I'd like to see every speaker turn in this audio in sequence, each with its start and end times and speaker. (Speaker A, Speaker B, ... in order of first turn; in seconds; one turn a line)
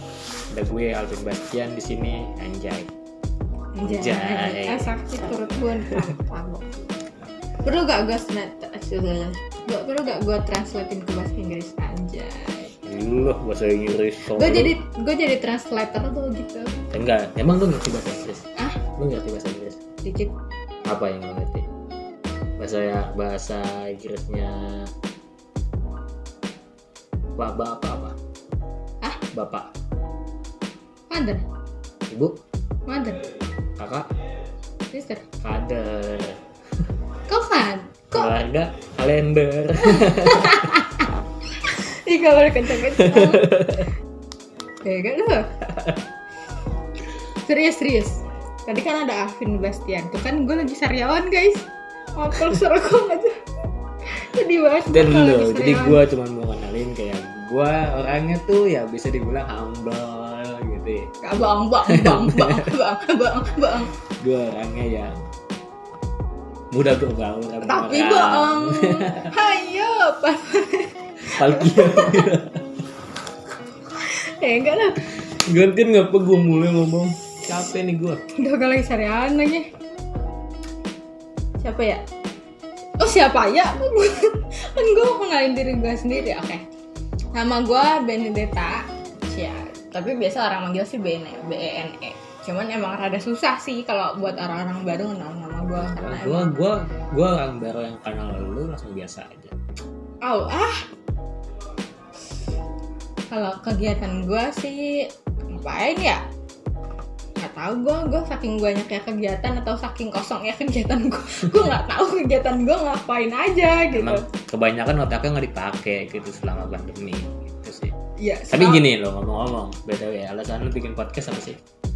Speaker A: 0.5-2.9
Speaker B: 3.8-6.9
Speaker A: 3.9-4.9
Speaker B: 7.6-12.7
Speaker A: 12.9-14.8
Speaker B: 14.4-16.7
Speaker A: 16.9-18.5
Speaker A: 19.0-19.8
Speaker B: 20.0-20.3
Speaker A: 20.9-21.7
Speaker A: 22.6-24.9
Speaker A: 27.4-28.1
Speaker A: 29.3-29.7
Speaker B: 31.1-31.4
Speaker A: 32.1-32.4
Speaker B: 32.9-33.2
Speaker A: 33.8-34.1
Speaker B: 34.9-35.2
Speaker A: 35.4-36.4
Speaker B: 37.3-38.3
Speaker A: 38.1-40.8
Speaker B: 39.9-41.1
Speaker B: 41.6-43.4
Speaker A: 43.0-43.9
Speaker B: 44.8-45.5
Speaker A: 45.7-46.0
Speaker B: 47.5-51.6
Speaker B: 52.2-53.3
Speaker B: 54.1-56.0
Speaker A: 54.9-61.1
Speaker B: 61.2-63.9
Speaker A: 61.9-62.7
Speaker A: 64.2-65.2
Speaker A: 66.7-69.3
Speaker B: 67.7-72.3
Speaker A: 71.4-72.6
Speaker B: 74.0-75.1
Speaker A: 75.5-78.2
Speaker B: 78.4-79.7
Speaker B: 81.6-82.0
Speaker B: 83.0-86.6
Speaker B: 87.4-96.5
Speaker A: 95.8-99.5
Speaker B: 100.2-100.8
Speaker B: 103.3-106.2
Speaker B: 107.4-114.2
Speaker A: 113.9-117.9
Speaker B: 118.2-118.8
Speaker A: 118.5-121.6